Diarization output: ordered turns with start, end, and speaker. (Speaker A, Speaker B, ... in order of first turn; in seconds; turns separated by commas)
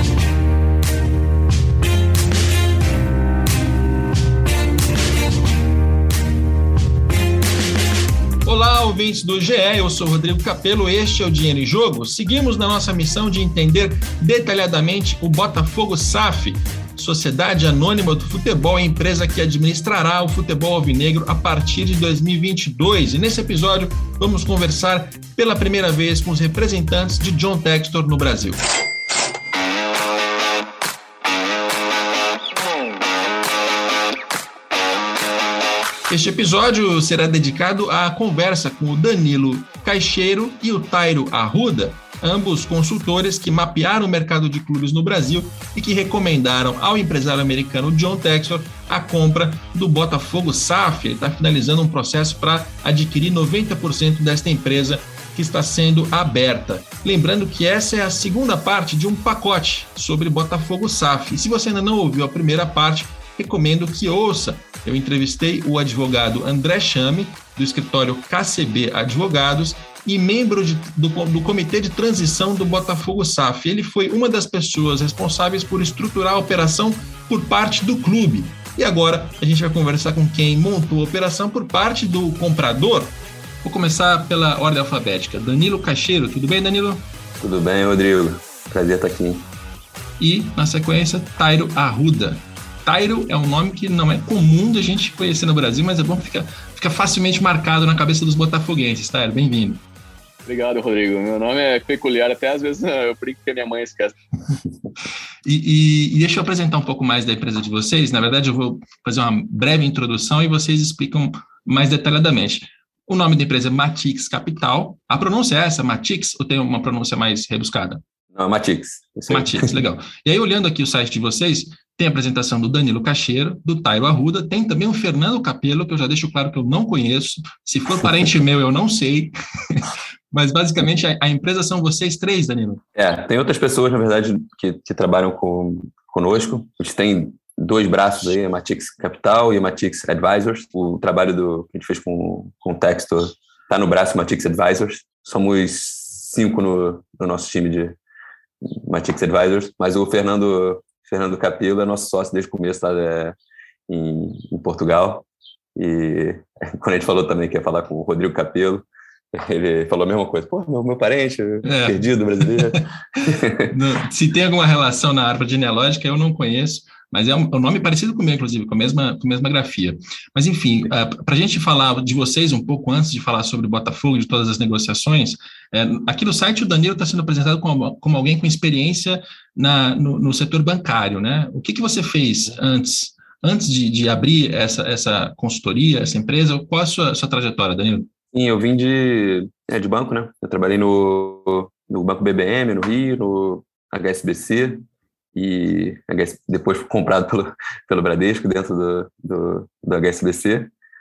Speaker A: 8.4-28.6, Speaker A: 36.1-87.0, Speaker B: 87.4-89.5, Speaker A: 90.2-99.8, Speaker C: 100.5-104.2, Speaker A: 105.5-118.0, Speaker B: 118.3-119.8, Speaker A: 119.3-132.8, Speaker B: 133.0-148.0, Speaker B: 148.7-153.4, Speaker B: 153.9-155.2, Speaker B: 155.8-163.7, Speaker A: 161.7-188.1, Speaker B: 188.3-194.8, Speaker B: 195.3-200.7